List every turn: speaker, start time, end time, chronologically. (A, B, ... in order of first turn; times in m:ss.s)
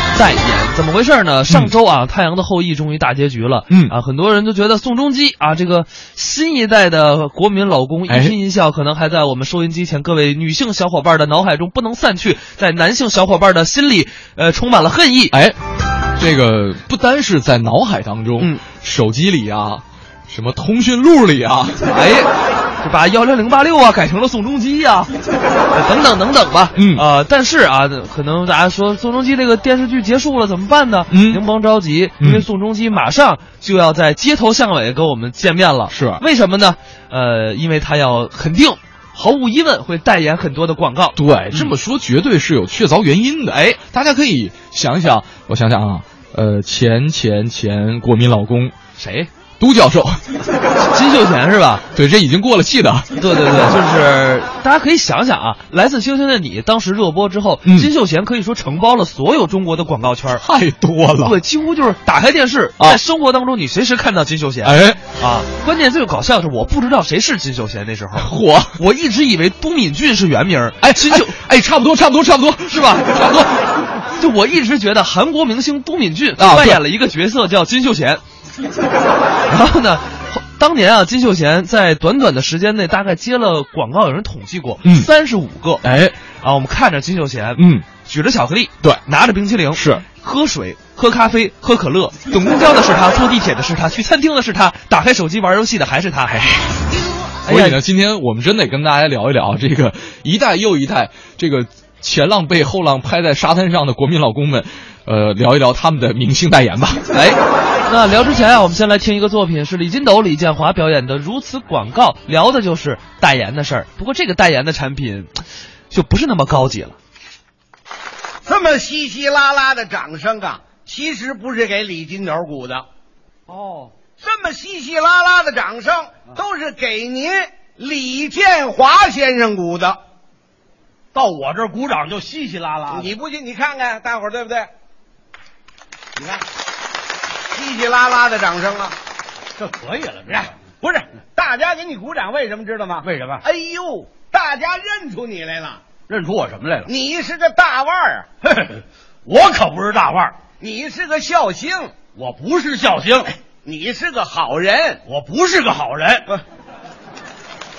0:00.1-0:15.4 A
0:03.7-0:04.0 B
0:08.1-0:08.4 B
0:15.3-0:15.6 B
0:16.2-0:21.9 B
0:21.9-0:22.3 A
0:22.8-0:25.1 A
0:25.7-0:41.7 A
0:26.8-0:27.0 B
0:31.1-0:31.4 B
0:32.2-0:32.4 B
0:35.9-0:36.2 B
0:41.2-0:48.8 B
0:43.5-0:43.8 A
0:49.0-0:49.3 A
0:49.6-0:50.2 B
0:50.9-0:51.9 A
0:51.9-0:53.2 B
0:53.2-1:00.4 A
0:57.6-0:57.9 B
1:00.3-1:01.4 B
1:01.2-1:11.4 A
1:04.6-1:05.1 B
1:08.2-1:08.8 B
1:10.8-1:13.5 B
1:12.7-1:13.5 A
1:14.2-1:18.2 A
1:16.4-1:16.8 B
1:19.5-1:25.8 A
1:25.8-1:26.2 B
1:26.4-1:36.6 A
1:27.6-1:27.9 B
1:29.7-1:30.0 B
1:37.4-1:37.8 A
1:37.5-1:47.2 B
1:47.1-1:55.3 A
1:55.9-1:57.0 A
1:58.4-2:02.9 C
2:03.5-2:03.9 D
2:04.2-2:10.0 C
2:11.1-2:13.1 D
2:12.9-2:14.7 C
2:16.2-2:16.4 C
2:17.5-2:19.0 C
2:19.6-2:20.5 D
2:20.8-2:25.8 C
2:23.0-2:23.4 D
2:26.1-2:26.9 D
2:26.8-2:28.3 C
2:28.4-2:30.4 D
2:30.6-2:32.0 C
2:32.2-2:33.3 D
2:33.6-2:35.0 C
2:35.1-2:36.3 D